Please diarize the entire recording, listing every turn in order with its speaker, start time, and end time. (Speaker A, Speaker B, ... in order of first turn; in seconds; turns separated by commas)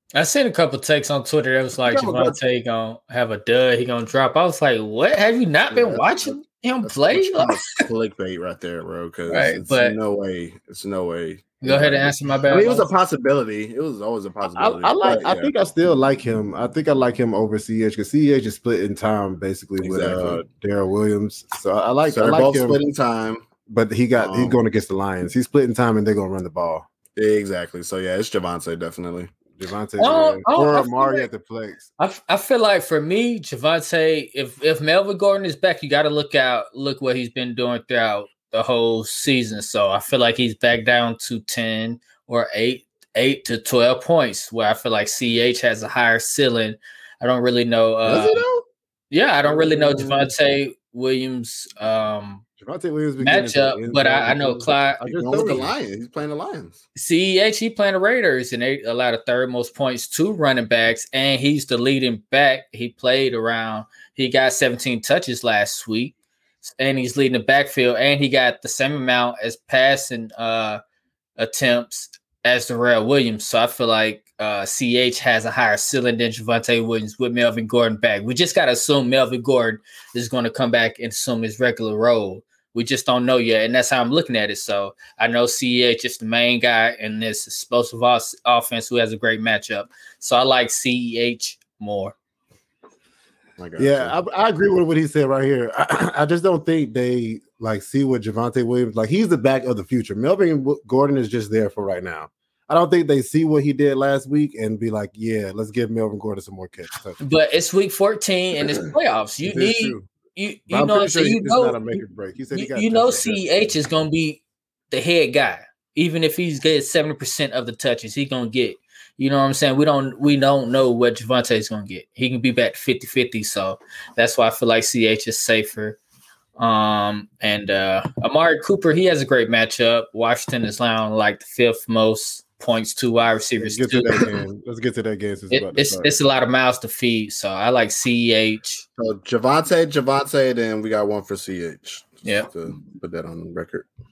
Speaker A: 0.1-7.8, Speaker B: 1.8-2.4, Speaker B: 5.7-15.5, Speaker A: 9.3-10.0, Speaker A: 11.6-12.9, Speaker C: 14.6-22.8, Speaker B: 19.8-20.4, Speaker B: 22.1-23.4, Speaker C: 23.7-26.9, Speaker B: 24.2-24.6, Speaker B: 27.2-29.3, Speaker C: 29.6-31.9, Speaker A: 30.0-31.3, Speaker A: 32.0-48.4, Speaker B: 48.0-48.6, Speaker A: 49.1-52.4, Speaker C: 49.5-50.3, Speaker C: 52.6-55.7, Speaker A: 53.2-55.6, Speaker B: 55.1-56.8, Speaker A: 57.0-70.8, Speaker A: 71.4-92.2, Speaker B: 93.6-94.2, Speaker C: 93.8-107.2, Speaker A: 107.2-111.8, Speaker C: 109.4-110.1, Speaker C: 110.7-113.7, Speaker A: 112.5-126.0, Speaker A: 126.6-134.3, Speaker C: 133.6-136.1, Speaker A: 135.5-138.8, Speaker B: 139.0-143.9